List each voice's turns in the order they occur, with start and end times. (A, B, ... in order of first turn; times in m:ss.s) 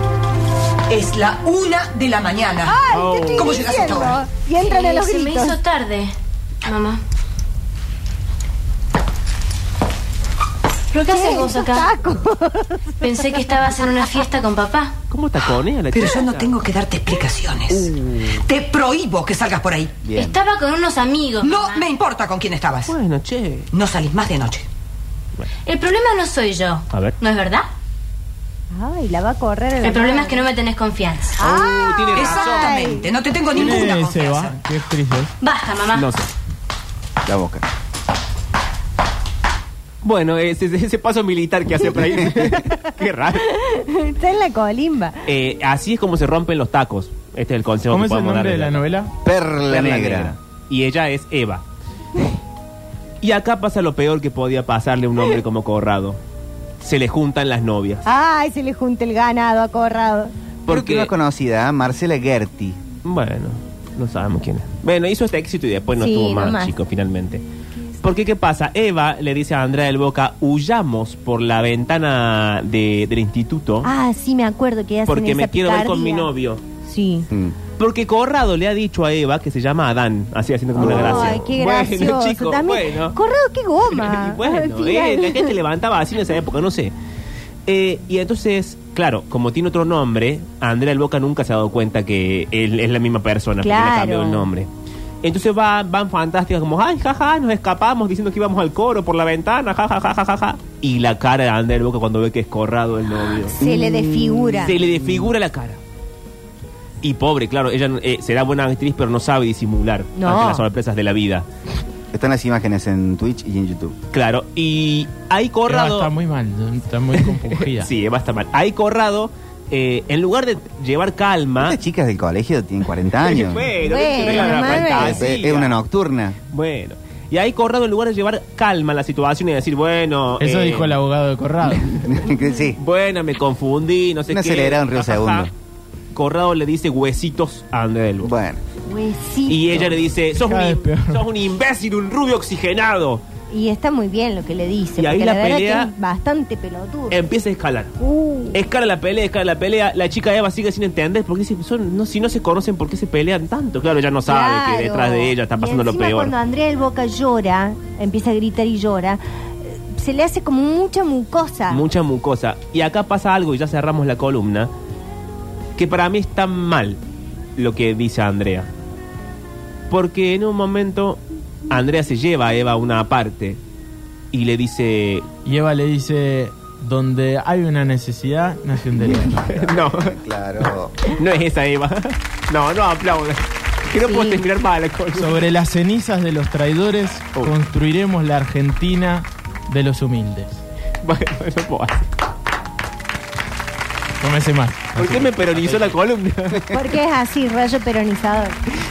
0:00.9-0:04.2 A
0:02.6-0:05.6 B
0:02.9-0:04.1 C
0:04.6-0:06.1 D
0:06.6-0:07.0 D
0:10.9-0:11.9 D
0:11.1-0:13.2 B
0:13.0-0:14.9 D
0:15.1-0:16.5 C
0:15.9-0:20.0 A
0:17.7-0:18.4 C
0:20.0-0:20.4 E
0:20.1-0:21.8 D
0:21.4-0:22.9 A
0:22.9-0:23.7 C
0:23.7-0:24.7 A
0:25.6-0:27.7 D
0:26.9-0:27.2 C
0:28.7-0:30.4 B
0:29.8-0:31.4 D
0:31.4-0:32.9 C
0:31.4-0:33.1 B
0:32.1-0:34.6 A
0:33.5-0:35.3 F
0:35.4-0:36.1 D
0:35.9-0:36.3 C
0:37.2-0:37.6 E
0:40.0-0:43.5 C
0:43.5-0:45.2 B
0:45.3-0:48.8 C
0:47.9-0:49.1 F
0:49.2-0:50.4 E
0:49.7-0:51.6 C
0:53.2-0:56.2 C
0:56.8-0:58.0 C
0:58.0-1:00.3 B
1:00.6-1:01.1 C
1:00.7-1:02.8 E
1:03.0-1:07.4 C
1:06.0-1:06.7 B
1:08.0-1:13.9 C
1:13.8-1:16.3 B
1:15.0-1:16.6 C
1:16.8-1:17.3 B
1:17.3-1:17.6 E
1:17.8-1:23.2 C
1:20.8-1:21.4 E
1:20.8-1:25.5 B
1:23.9-1:26.9 C
1:27.7-1:34.7 C
1:33.6-1:34.5 B
1:35.2-1:45.8 C
1:43.5-1:44.8 B
1:47.0-1:51.4 C
1:50.2-1:50.6 B
1:52.1-1:54.0 E
1:54.1-1:56.1 C
1:55.6-1:57.9 F
1:57.2-2:01.8 C
2:01.6-2:03.7 E
2:03.2-2:05.8 C
2:03.8-2:05.2 B
2:04.3-2:06.4 E
2:06.5-2:11.0 C
2:10.4-2:12.0 F
2:12.0-2:12.8 E
2:12.8-2:15.5 C
2:14.3-2:15.5 E
2:16.1-2:18.3 C
2:18.2-2:18.6 E
2:18.8-2:20.0 B
2:19.5-2:23.2 C
2:20.3-2:21.2 F
2:23.5-2:27.1 B
2:25.0-2:25.9 C
2:27.1-2:27.9 C
2:28.0-2:28.6 B
2:28.5-2:36.3 C
2:34.3-2:41.8 B
2:41.7-2:44.7 C
2:45.8-2:47.0 C
2:47.6-2:48.7 C
2:49.9-2:53.6 C
2:54.3-2:55.2 C
2:55.4-2:59.6 F
2:59.2-3:01.0 E
2:59.5-3:05.5 C
3:04.0-3:04.4 B
3:05.1-3:10.6 F
3:11.0-3:12.0 C
3:14.2-3:16.0 F
3:14.9-3:16.6 C
3:16.7-3:18.6 B